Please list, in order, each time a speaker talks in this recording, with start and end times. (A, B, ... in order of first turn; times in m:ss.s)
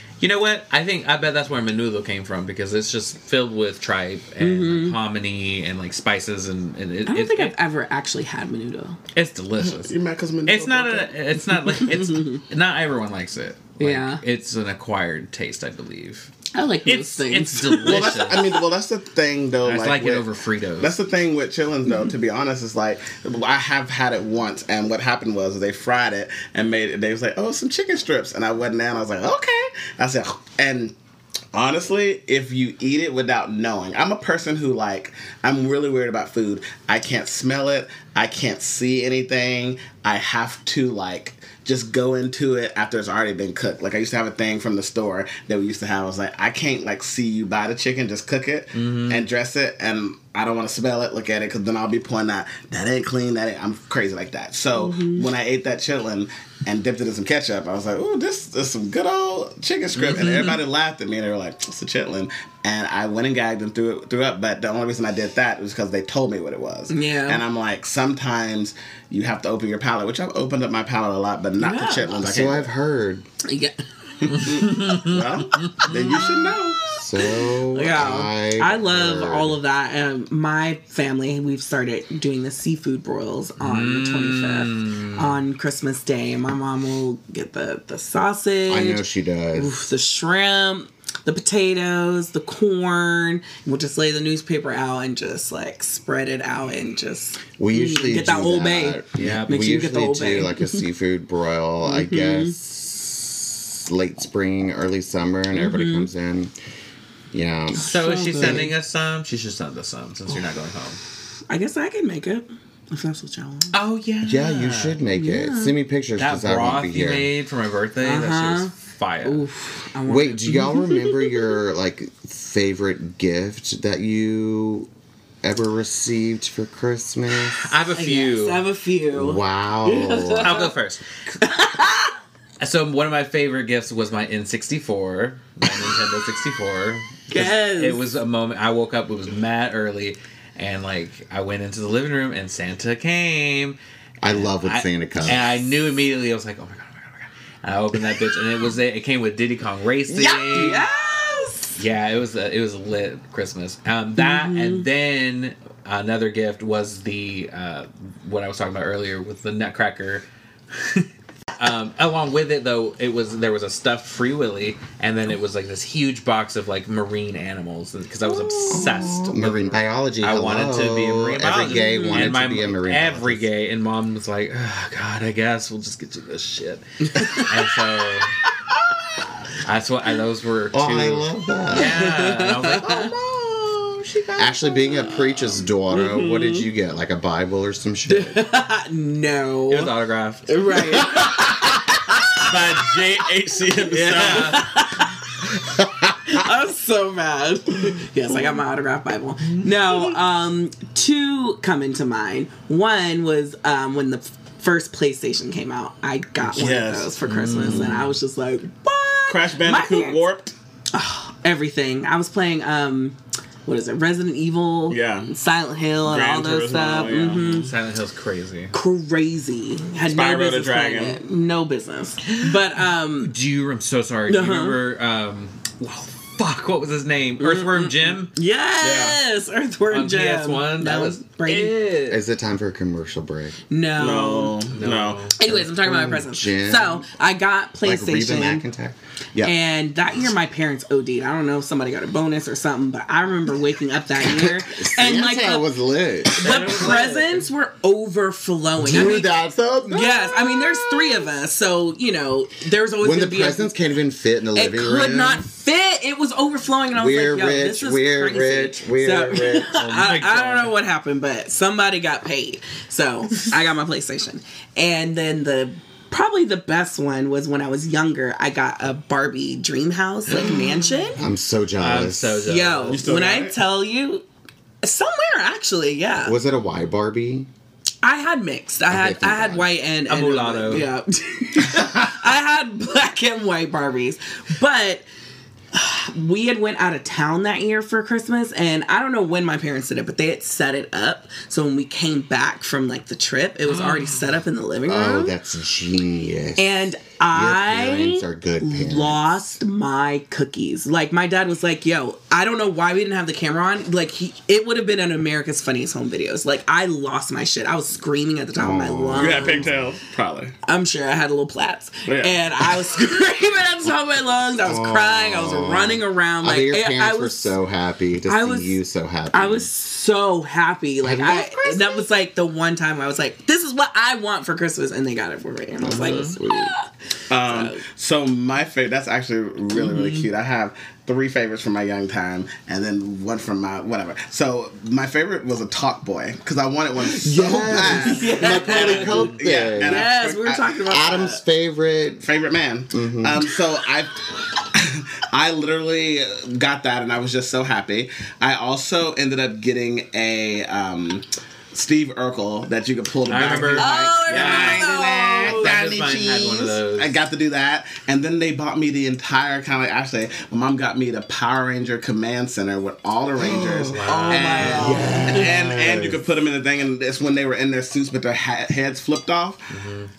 0:00.2-0:07.5 A
0:04.4-0:05.0 B
0:07.1-0:09.0 B
0:09.1-0:10.0 A
0:09.6-0:11.1 C
0:10.5-0:16.3 A
0:11.5-0:12.4 B
0:13.8-0:14.2 B
0:16.5-0:18.6 B
0:16.8-0:18.5 A
0:17.8-0:20.2 C
0:19.6-0:20.9 A
0:20.8-0:31.0 C
0:31.5-1:12.7 C
0:48.7-0:49.3 A
0:54.7-0:55.3 B
1:00.0-1:00.5 A
1:00.2-1:00.5 B
1:06.9-1:07.4 B
1:11.6-1:12.1 B
1:12.2-1:13.3 D
1:13.4-1:14.8 B
1:14.2-1:16.8 C
1:14.3-1:15.9 A
1:15.6-1:29.0 B
1:17.0-1:19.6 D
1:23.6-1:25.3 A
1:28.7-1:29.7 D
1:29.5-1:40.8 B
1:37.6-1:46.5 D
1:39.2-1:39.7 A
1:41.8-1:42.6 B
1:45.5-1:46.1 B
1:47.3-1:48.7 D
1:47.8-1:48.7 B
1:47.8-1:51.0 A
1:51.5-1:53.8 B
1:53.7-1:55.0 A
1:54.2-1:57.3 D
1:55.1-1:55.8 B
1:56.2-1:59.5 A
1:58.0-1:58.7 B
1:59.2-2:01.5 B
2:00.1-2:04.9 D
2:05.4-2:07.7 D
2:07.6-2:08.7 A
2:07.8-2:10.7 B
2:09.1-2:10.7 D
2:10.4-2:11.0 A
2:11.4-2:12.2 B
2:12.6-2:30.9 A
2:17.3-2:18.0 B
2:24.2-2:25.6 D
2:30.1-2:31.8 B
2:31.8-2:58.3 A
2:34.2-2:34.9 B
2:48.2-2:49.2 B
2:48.7-2:53.5 D
2:51.7-2:52.3 B
2:57.1-2:57.8 B
2:59.6-3:03.2 A
3:00.7-3:02.0 D
3:01.7-3:03.1 B
3:04.4-3:08.5 D
3:04.4-3:06.7 B
3:08.1-3:09.9 B
3:09.7-3:11.2 A
3:10.5-3:12.8 B
3:12.5-3:14.7 C
3:12.5-3:12.9 A
3:13.9-3:14.8 A
3:14.0-3:15.3 B
3:15.6-3:16.4 D
3:16.3-3:30.2 B
3:19.6-3:20.1 A
3:26.4-3:27.2 C
3:27.2-3:28.2 A
3:29.3-3:30.5 C
3:30.9-3:37.7 B
3:34.9-3:35.3 C
3:36.0-3:37.6 C
3:37.4-3:38.7 A
3:38.7-3:43.3 B
3:40.0-3:41.2 C
3:42.3-3:42.6 A
3:43.2-3:48.3 A
3:44.3-3:44.8 B
3:47.4-3:51.8 B
3:48.8-3:49.2 C
3:49.9-3:52.2 A
3:52.1-3:53.6 D
3:53.7-3:54.6 B
3:54.0-3:55.2 C
3:54.7-3:55.4 A
3:55.4-3:58.6 B
3:55.4-3:57.1 D
3:57.8-3:59.6 D
3:59.4-4:05.7 B
4:04.2-4:06.9 D
4:06.4-4:07.5 A
4:06.4-4:09.3 B
4:08.8-4:11.3 D
4:09.9-4:13.7 B
4:13.0-4:15.4 D
4:14.6-4:31.2 B
4:16.9-4:19.8 D
4:19.8-4:20.7 A
4:31.2-4:32.5 D
4:31.8-4:33.0 A
4:32.5-4:34.2 B
4:32.9-4:33.6 C
4:34.8-4:36.4 B
4:36.2-4:37.5 D
4:38.0-4:45.0 B
4:38.9-4:39.7 D
4:40.1-4:40.9 A
4:45.7-4:55.4 B
4:53.7-4:54.4 A
4:54.9-4:59.6 D
4:56.6-5:09.7 B
5:08.6-5:09.9 D
5:09.2-5:10.5 C
5:10.7-5:17.6 B
5:12.1-5:12.4 C
5:14.6-5:19.7 D
5:18.3-5:18.8 B
5:19.3-5:26.9 B
5:21.0-5:22.1 D
5:25.8-5:26.7 D
5:25.9-5:26.4 A
5:27.3-5:40.8 C
5:27.4-5:27.8 B
5:29.8-5:30.3 B
5:37.0-5:40.1 D
5:37.8-5:41.4 B
5:40.9-5:42.2 D
5:42.2-6:09.7 C
5:42.9-5:43.5 D
5:53.3-5:57.2 A
5:53.7-5:55.8 B
6:03.4-6:06.2 D
6:03.7-6:05.1 A
6:04.1-6:05.5 B
6:09.7-6:10.1 A